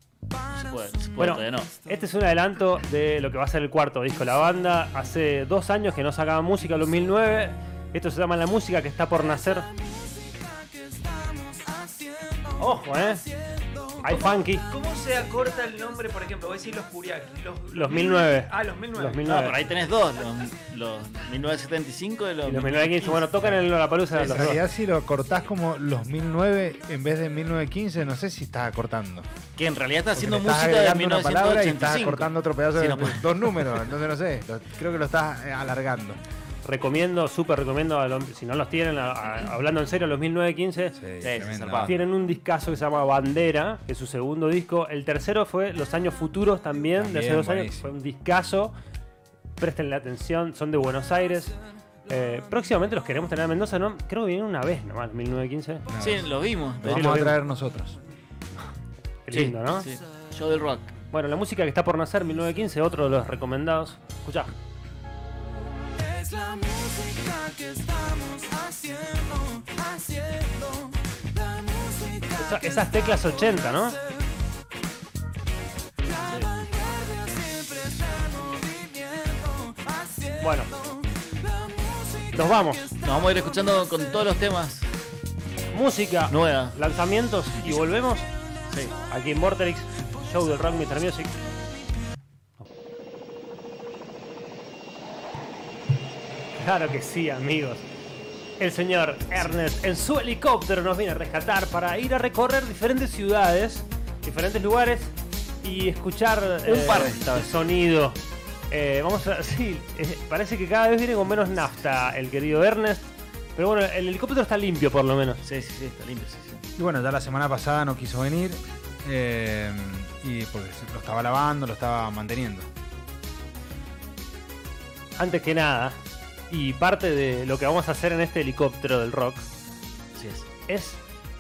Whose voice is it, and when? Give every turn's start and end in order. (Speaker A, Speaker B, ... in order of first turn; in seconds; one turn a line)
Speaker A: 0.3-2.0
Speaker B: 0.5-1.7
Speaker C: 1.2-9.7
Speaker A: 9.7-14.3
Speaker C: 12.6-13.2
Speaker C: 14.0-14.7
Speaker D: 14.1-19.5
Speaker C: 17.7-19.6
Speaker B: 19.3-23.5
Speaker C: 22.5-24.6
Speaker E: 24.1-29.3
Speaker B: 29.6-33.8
Speaker E: 30.1-36.2
Speaker C: 36.6-41.0
Speaker E: 41.0-41.9
Speaker B: 41.2-41.9
Speaker C: 41.9-48.7
Speaker E: 47.0-47.9
Speaker C: 49.6-51.6
Speaker C: 52.1-55.9
Speaker E: 55.9-58.0
Speaker B: 56.0-57.1
Speaker C: 56.9-57.4
Speaker C: 59.3-59.9
Speaker B: 59.3-60.9
Speaker C: 61.1-64.5
Speaker A: 66.0-74.2
Speaker C: 72.4-74.0
Speaker A: 76.0-83.0
Speaker C: 80.4-80.7
Speaker C: 82.3-82.9
Speaker B: 83.0-84.8
Speaker C: 85.7-88.3
Speaker B: 86.3-86.8
Speaker B: 88.7-88.9
Speaker C: 89.1-91.4
Speaker C: 96.6-97.9
Speaker C: 98.6-108.2
Speaker B: 106.7-107.5
Speaker C: 108.7-115.4
Speaker B: 115.4-116.6
Speaker E: 116.8-122.7
Speaker C: 125.2-126.0
Speaker C: 126.5-129.5
Speaker B: 130.2-130.5
Speaker C: 130.7-131.0